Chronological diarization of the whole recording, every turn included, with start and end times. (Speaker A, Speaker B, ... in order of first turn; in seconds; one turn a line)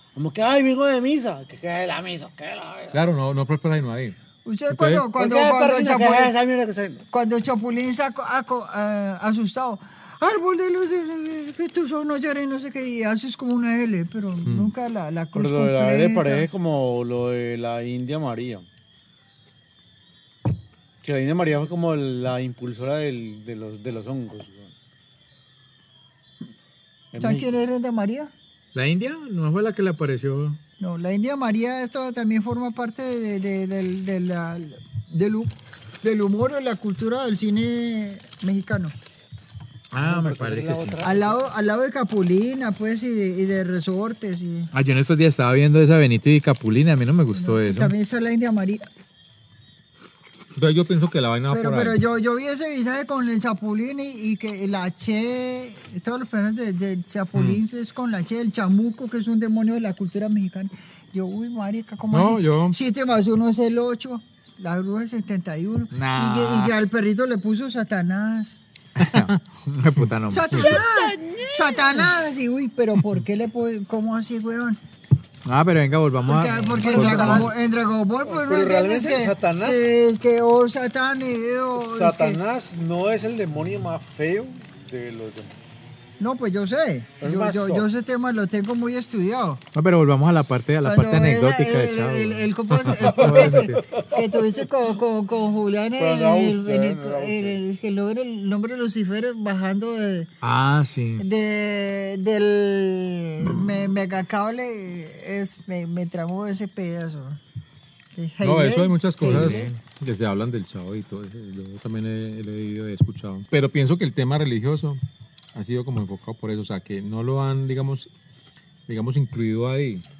Speaker A: 0.1-3.0
Speaker B: 2.9-4.2
Speaker C: 4.4-6.3
Speaker B: 4.7-5.1
Speaker A: 5.1-7.0
Speaker C: 7.1-16.5
Speaker B: 14.4-14.7
Speaker A: 15.3-18.6
Speaker A: 21.0-24.7
Speaker A: 27.1-27.5
Speaker C: 27.2-28.3
Speaker D: 28.7-30.6
Speaker C: 30.8-38.9
Speaker D: 39.9-41.0
Speaker A: 40.0-41.4
Speaker C: 41.0-44.7
Speaker D: 44.7-47.9
Speaker C: 47.3-48.8
Speaker B: 50.5-52.0
Speaker C: 51.5-68.6
Speaker B: 57.3-57.6
Speaker B: 62.1-62.8
Speaker D: 65.9-66.7
Speaker D: 69.0-72.0
Speaker C: 70.3-74.8
Speaker D: 75.4-77.5
Speaker C: 76.2-82.4
Speaker A: 77.0-77.5
Speaker A: 78.2-79.8
Speaker A: 81.7-85.6
Speaker C: 86.2-89.6
Speaker A: 87.2-87.9
Speaker D: 89.7-93.8
Speaker C: 90.8-100.3
Speaker A: 93.1-94.4
Speaker A: 96.0-97.6
Speaker D: 100.4-101.2
Speaker C: 101.2-107.4
Speaker C: 108.1-109.7
Speaker B: 108.4-115.0
Speaker D: 109.2-109.8
Speaker B: 115.5-118.1
Speaker B: 118.9-120.0